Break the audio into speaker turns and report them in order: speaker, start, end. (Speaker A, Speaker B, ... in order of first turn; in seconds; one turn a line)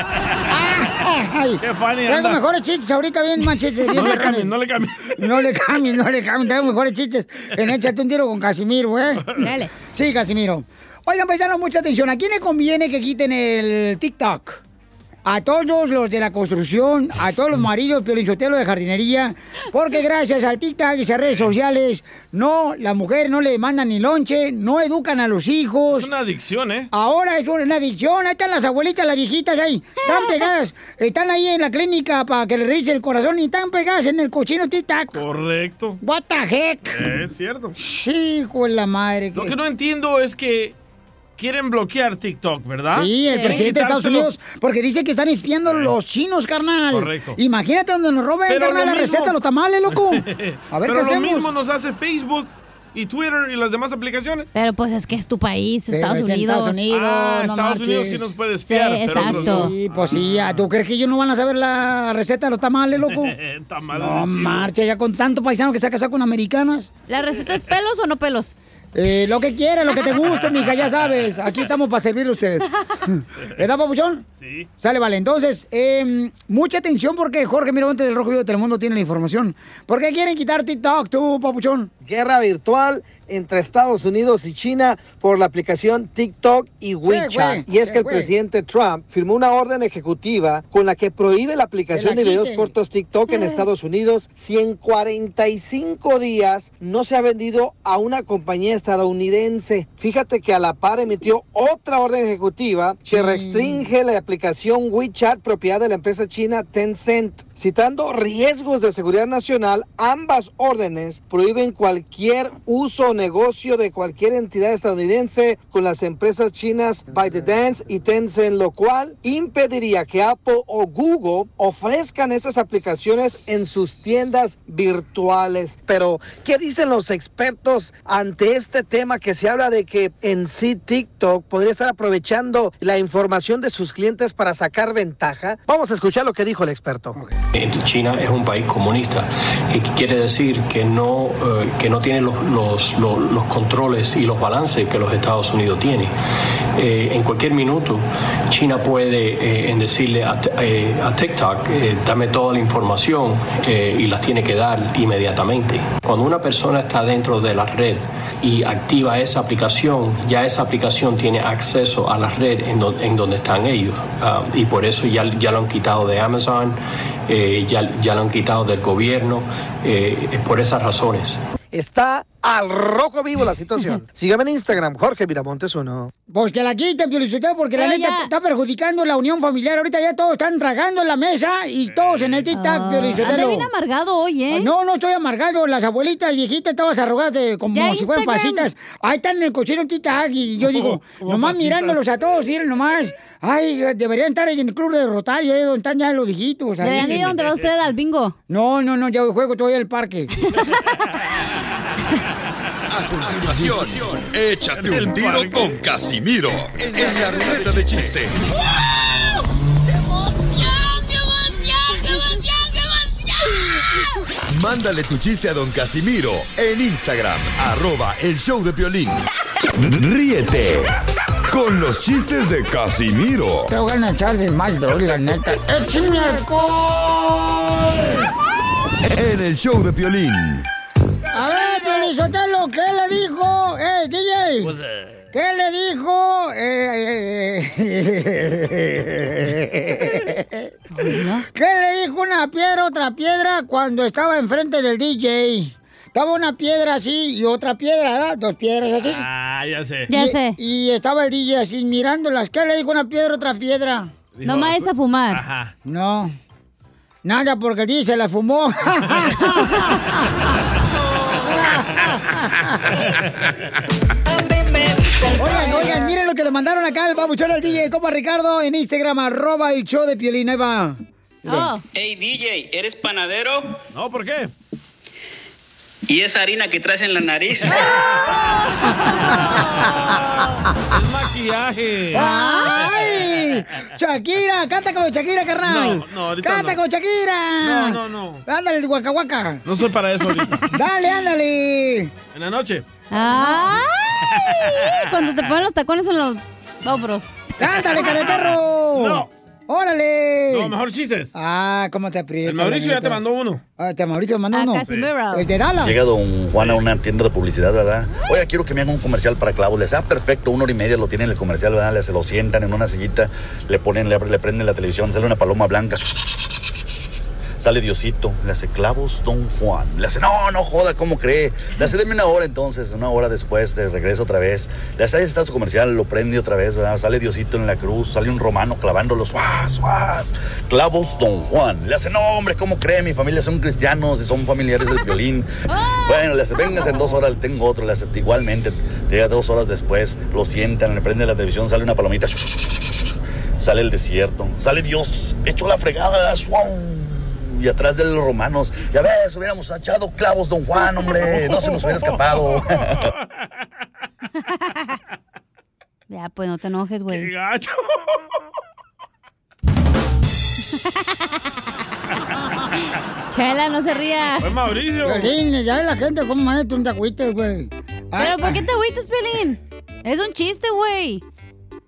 Speaker A: 0.5-4.5
Speaker B: 1.6-2.4
Speaker B: 3.9-5.2
Speaker A: 5.2-9.3
Speaker C: 9.4-9.7
Speaker A: 9.8-14.6
Speaker A: 15.2-26.1
Speaker B: 25.9-26.9
Speaker A: 26.9-35.2
Speaker C: 30.0-30.4
Speaker B: 35.1-36.0
Speaker A: 36.0-37.1
Speaker B: 36.9-37.8
Speaker A: 37.8-39.5
Speaker B: 39.3-40.8
Speaker B: 41.4-44.3
Speaker A: 42.9-51.5
Speaker C: 43.3-43.6
Speaker B: 45.6-45.9
Speaker B: 46.9-47.4
Speaker B: 48.5-49.3
Speaker B: 49.9-54.5
Speaker C: 54.5-56.8
Speaker A: 55.9-58.4
Speaker B: 56.9-60.6
Speaker C: 58.6-59.7
Speaker A: 59.1-63.3
Speaker B: 63.0-64.7
Speaker A: 63.9-66.9
Speaker C: 67.1-68.5
Speaker A: 68.9-74.2
Speaker B: 70.4-70.7
Speaker B: 74.4-74.7
Speaker A: 74.8-81.9
Speaker D: 82.0-137.2
Speaker A: 87.0-88.3
Speaker A: 91.9-92.7
Speaker C: 93.3-93.6
Speaker A: 103.1-103.9
Speaker E: 137.5-146.1
Speaker E: 146.7-171.4
Speaker D: 171.7-176.1
Speaker A: 176.3-183.7
Speaker C: 177.8-178.3
Speaker B: 181.8-182.5
Speaker C: 182.5-184.7
Speaker A: 184.5-197.3
Speaker C: 187.7-188.7
Speaker B: 190.6-192.1
Speaker C: 196.8-198.3
Speaker B: 197.0-197.2
Speaker A: 198.5-200.3
Speaker F: 202.9-208.5
Speaker B: 204.8-205.7
Speaker F: 214.5-219.2
Speaker F: 219.8-220.9
Speaker F: 221.5-223.7
Speaker A: 223.7-228.3
Speaker F: 229.1-230.7
Speaker A: 231.3-234.7
Speaker B: 234.7-235.1
Speaker A: 235.3-249.2
Speaker C: 240.9-241.4
Speaker B: 249.1-250.1
Speaker C: 250.1-250.6
Speaker A: 250.1-254.1
Speaker B: 254.3-255.7
Speaker C: 254.4-255.4
Speaker A: 255.8-256.3
Speaker A: 257.2-260.5
Speaker A: 261.4-262.9
Speaker A: 265.4-271.7
Speaker C: 265.6-266.0
Speaker C: 271.5-271.8
Speaker G: 271.9-273.7
Speaker B: 273.9-274.5
Speaker G: 276.1-277.6
Speaker C: 278.9-280.1
Speaker A: 279.0-280.2
Speaker B: 280.9-283.3
Speaker C: 282.1-282.8
Speaker A: 282.1-289.6
Speaker B: 285.6-286.8
Speaker B: 287.6-288.4
Speaker B: 289.6-290.7
Speaker A: 290.7-292.1
Speaker B: 292.3-292.8
Speaker C: 293.1-297.2
Speaker A: 297.6-300.8
Speaker B: 297.7-299.3
Speaker B: 300.5-301.3
Speaker A: 301.3-303.2
Speaker B: 302.4-303.6
Speaker A: 303.8-306.0
Speaker C: 304.5-305.5
Speaker H: 305.8-316.5
Speaker H: 317.6-335.5
Speaker C: 335.7-337.1
Speaker H: 336.0-342.9
Speaker H: 343.6-353.0
Speaker C: 356.1-357.3
Speaker B: 357.1-357.8
Speaker C: 363.3-364.5
Speaker B: 364.4-365.3
Speaker A: 365.0-368.6
Speaker C: 368.2-371.2